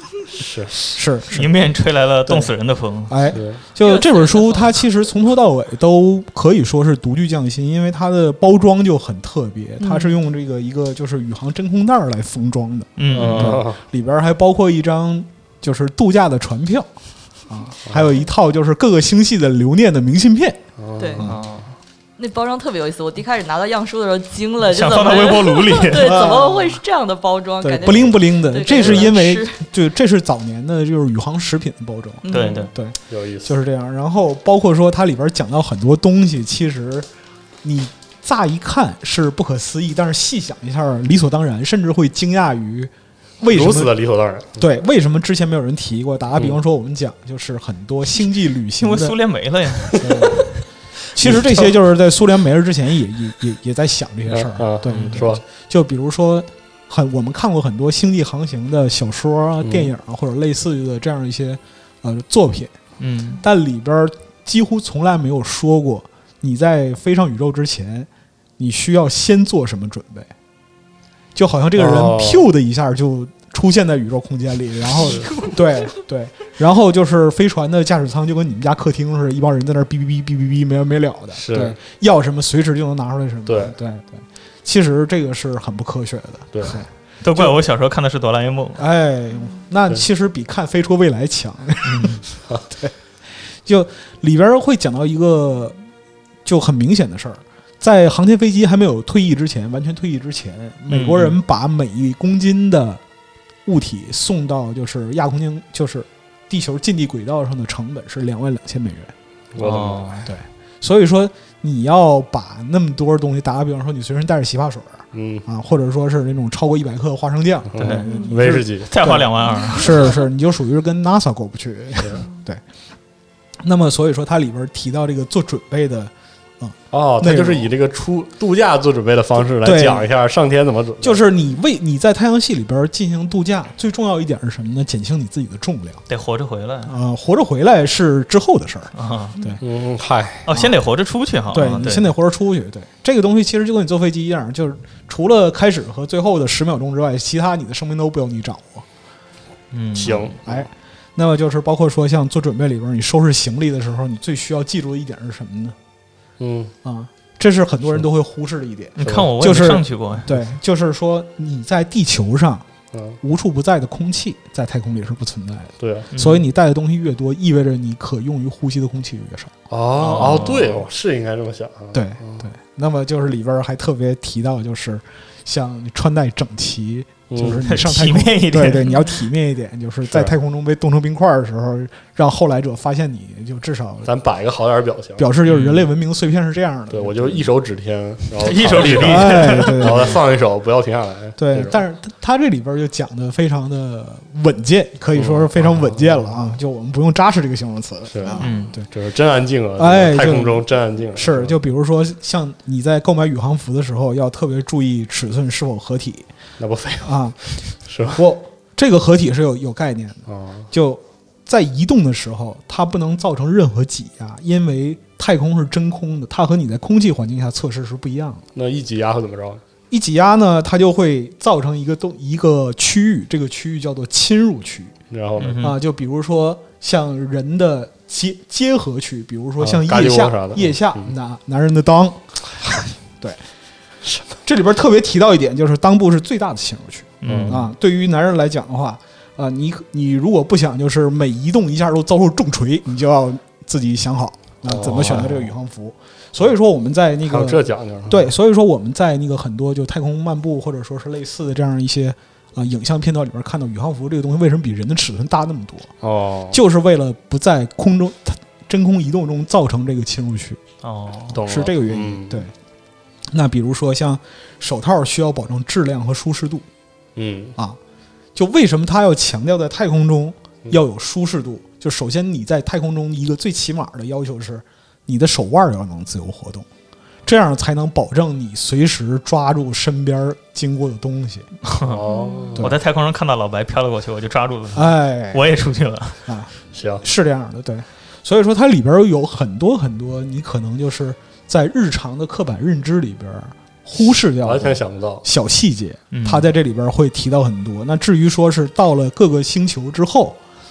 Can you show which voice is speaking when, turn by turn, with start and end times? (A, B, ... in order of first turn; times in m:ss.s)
0:00.3-0:00.7 A
0:00.9-0:01.5 B
0:01.3-0:03.2 C
0:03.1-0:16.9 B
0:03.3-0:03.6 A
0:03.8-0:04.7 D
0:09.8-0:10.2 D
0:13.0-0:13.6 C
0:13.1-0:13.8 A
0:17.5-0:20.6 B
0:17.9-0:18.1 A
0:20.8-0:21.2 A
0:21.0-0:21.3 D
0:21.2-0:21.7 C
0:22.2-0:29.6 D
0:24.6-0:26.3 C
0:25.9-0:26.8 B
0:27.6-0:37.1 B
0:28.8-0:29.0 A
0:32.2-0:32.7 D
0:32.3-0:32.7 C
0:33.1-0:33.6 A
0:37.6-0:43.9 B
0:43.5-0:44.6 A
0:44.6-0:49.2 B
0:48.8-0:50.5 C
0:49.9-0:50.5 B
0:51.2-1:02.8 B
0:51.2-0:51.7 A
0:54.3-0:55.4 A
0:54.9-0:55.2 C
0:59.6-0:59.9 A
1:03.0-1:03.4 C
1:03.4-1:10.3 B
1:11.4-1:27.5 B
1:11.8-1:12.4 A
1:15.0-1:15.3 A
1:21.4-1:21.8 A
1:23.5-1:23.7 A
1:26.5-1:26.8 A
1:27.2-1:28.8 C
1:28.8-1:32.9 B
1:31.9-1:32.2 C
1:33.6-1:35.8 B
1:36.4-1:43.0 B
1:40.9-1:41.4 C
1:43.7-1:49.1 B
1:49.6-1:50.2 A
1:49.6-1:50.3 C
1:50.3-2:02.6 B
1:55.1-1:55.5 A
1:57.7-1:58.9 A
1:57.8-2:00.2 C
1:59.5-2:00.1 D
2:03.6-2:07.7 B
2:06.9-2:11.2 A
2:09.6-2:10.0 B
2:11.0-2:16.0 B
2:16.1-2:16.9 C
2:16.8-2:19.6 B
2:19.0-2:19.4 C
2:19.6-2:20.5 A
2:20.5-2:22.1 C
2:21.5-2:28.8 B
2:29.7-2:30.3 C
2:30.0-2:30.7 A
2:30.4-2:35.8 B
2:36.4-2:36.7 A
2:36.8-2:42.6 B
2:39.0-2:40.5 C
2:39.0-2:39.3 A
2:42.9-2:43.2 A
2:43.2-2:49.5 B
2:45.8-2:46.1 A
2:46.1-2:46.4 C
2:49.7-2:52.5 A
2:50.0-2:50.8 C
2:51.9-3:04.1 B
2:57.3-2:57.6 A
2:57.6-2:58.9 C
3:00.1-3:00.3 A
3:04.0-3:05.3 A
3:05.2-3:07.5 B
3:05.5-3:05.9 C
3:06.9-3:11.8 A
3:08.4-3:10.1 C
3:09.0-3:10.2 B
3:11.4-3:18.9 B
3:15.2-3:16.4 A
3:18.1-3:21.6 A
3:18.4-3:18.8 C
3:19.8-3:26.3 B
3:26.6-3:28.2 A
3:27.0-3:27.4 B
3:28.2-3:38.4 B
3:30.3-3:30.7 A
3:38.6-3:39.6 A
3:39.9-3:45.0 B
3:45.1-3:45.7 A
3:45.4-3:45.8 C
3:45.6-3:53.4 B
3:49.6-3:51.1 A
3:54.0-3:54.3 A
3:54.4-4:15.9 B
3:57.2-3:57.6 C
3:57.2-3:57.6 A
4:04.7-4:05.5 A
4:07.2-4:08.3 A
4:16.0-4:16.6 A
4:16.5-4:20.6 B
4:20.8-4:21.4 C
4:21.3-4:22.4 A
4:21.4-4:22.5 B
4:23.3-4:26.7 B
4:27.2-4:27.6 A
4:28.4-4:36.7 B
4:37.2-4:41.5 B
4:41.7-4:42.0 C
4:41.8-4:42.7 A
4:42.1-4:42.5 D
4:42.6-4:46.3 C
4:44.8-4:45.4 B
4:46.3-5:00.4 B
4:46.7-4:47.0 A
4:54.4-4:55.2 A
4:56.1-4:56.5 C